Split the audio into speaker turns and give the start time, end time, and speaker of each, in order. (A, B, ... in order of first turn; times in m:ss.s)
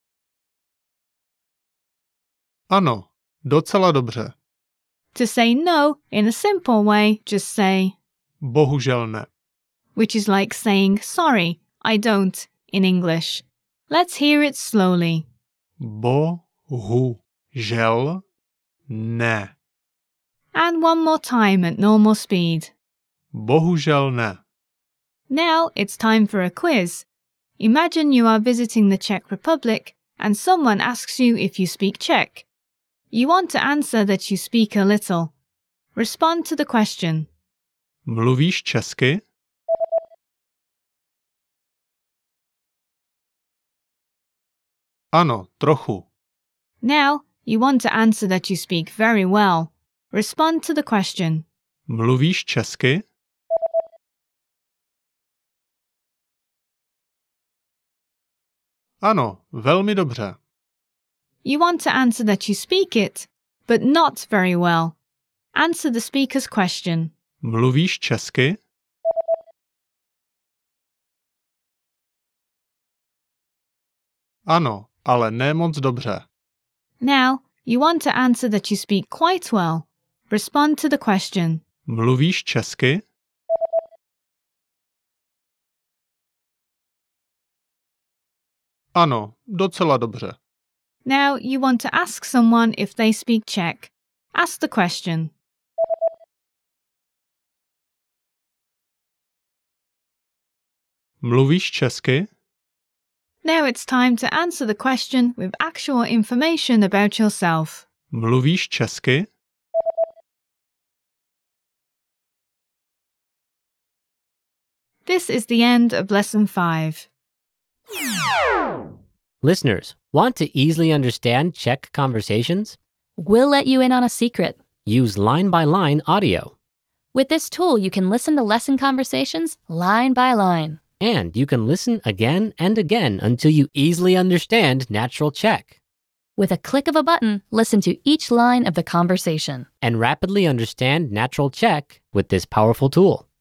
0:02.7-0:04.3 A
0:05.1-0:07.9 B
0:08.4-0:09.3 A
0:09.9-0:15.2 B
0:15.8-0:18.2 A
0:18.9-0:19.5 A
0:20.5-0:22.7 B
0:23.3-0:24.4 A
0:25.3-0:27.0 B
0:27.6-0:32.4 B
0:33.1-0:35.3 B
0:35.9-0:37.3 B
0:38.0-0:39.2 A
0:45.1-0:46.0 A
0:46.8-0:51.4 B
0:51.9-0:53.0 A
0:59.0-1:00.4 A
1:01.4-1:04.9 B
1:05.5-1:07.1 B
1:07.4-1:08.6 A
1:14.5-1:16.2 A
1:17.0-1:21.6 B
1:21.8-1:23.0 A
1:28.9-1:30.4 A
1:31.0-1:35.3 B
1:41.2-1:42.3 A
1:43.4-1:47.8 B
1:48.1-1:49.3 A
1:55.0-1:57.1 B
1:59.4-2:02.8 C
2:03.2-2:04.6 D
2:04.8-2:06.5 C
2:07.1-2:10.8 D
2:11.0-2:15.7 C
2:16.4-2:19.6 D
2:19.8-2:23.2 C